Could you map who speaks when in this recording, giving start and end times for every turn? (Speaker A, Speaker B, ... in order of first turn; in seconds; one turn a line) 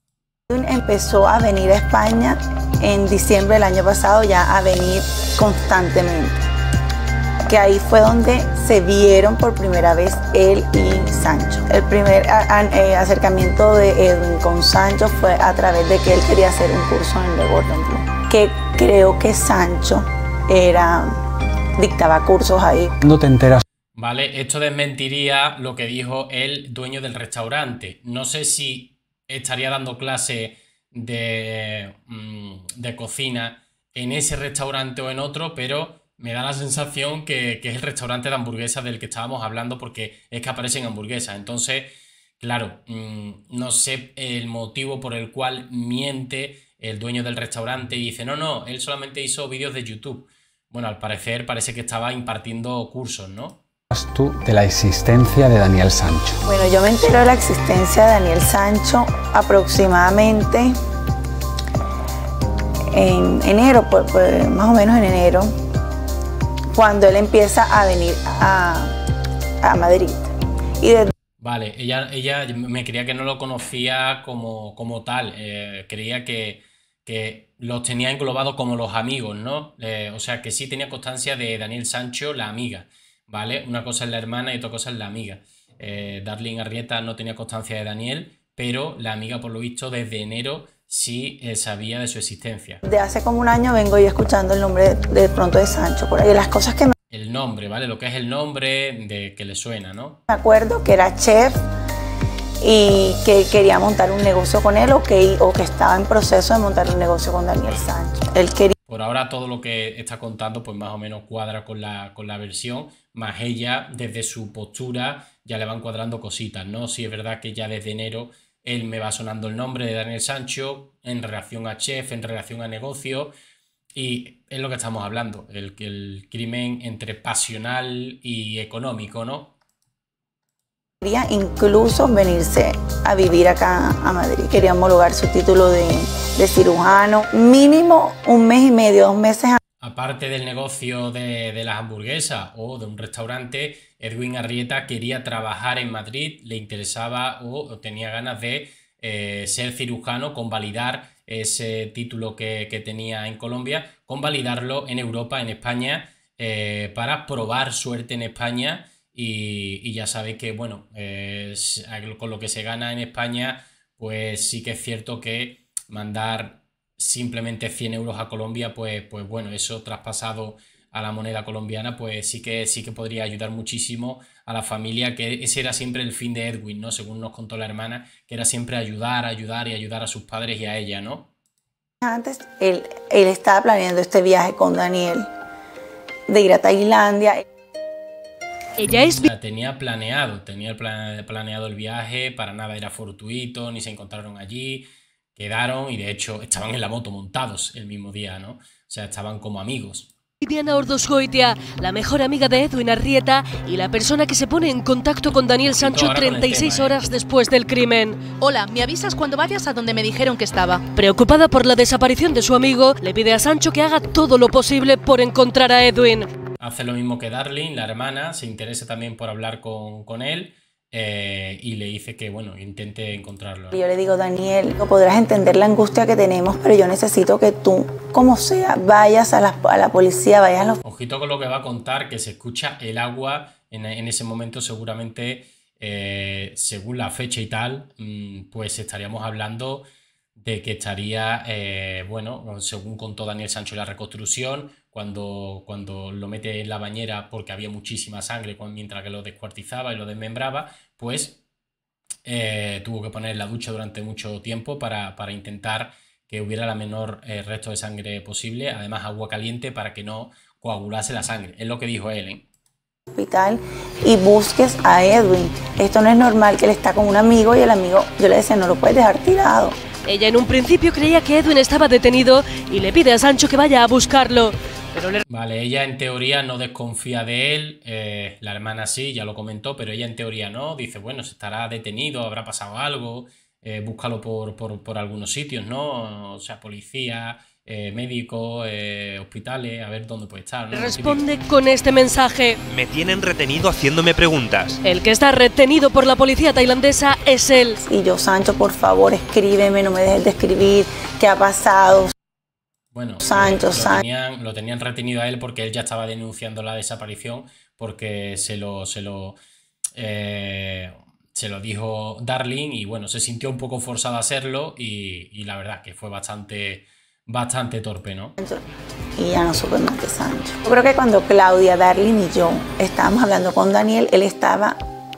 Speaker A: 0.5-6.4
Speaker A: 7.5-21.1
Speaker A: 21.8-22.9
Speaker B: 23.0-23.6
Speaker C: 23.9-53.6
Speaker B: 53.9-56.4
Speaker A: 56.5-60.7
Speaker A: 62.9-65.5
Speaker A: 66.7-68.9
Speaker A: 69.6-71.1
Speaker C: 71.4-92.8
Speaker A: 92.8-96.9
Speaker C: 97.1-100.2
Speaker A: 100.3-101.6
Speaker A: 102.6-108.8
Speaker C: 107.7-107.9
Speaker C: 108.9-123.3
Speaker C: 123.9-129.5
Speaker A: 131.0-139.6
Speaker C: 139.8-181.3
Speaker A: 182.0-185.2
Speaker A: 186.3-187.4
Speaker D: 188.8-189.3
Speaker C: 189.2-200.1
Speaker D: 200.4-208.3
Speaker C: 205.6-206.9
Speaker E: 208.4-210.8
Speaker D: 210.9-216.3
Speaker C: 216.6-223.8
Speaker A: 223.7-230.8
Speaker C: 230.8-239.8
Speaker C: 240.3-251.4
Speaker C: 252.2-262.4
Speaker A: 263.1-269.8
Speaker D: 270.1-275.2
Speaker C: 275.3-291.2
Speaker D: 290.7-292.6
Speaker F: 292.6-294.8
Speaker D: 294.8-297.8
Speaker A: 297.8-302.1
Speaker C: 302.9-309.4
Speaker A: 303.2-304.0
Speaker C: 309.9-318.3
Speaker A: 319.2-324.8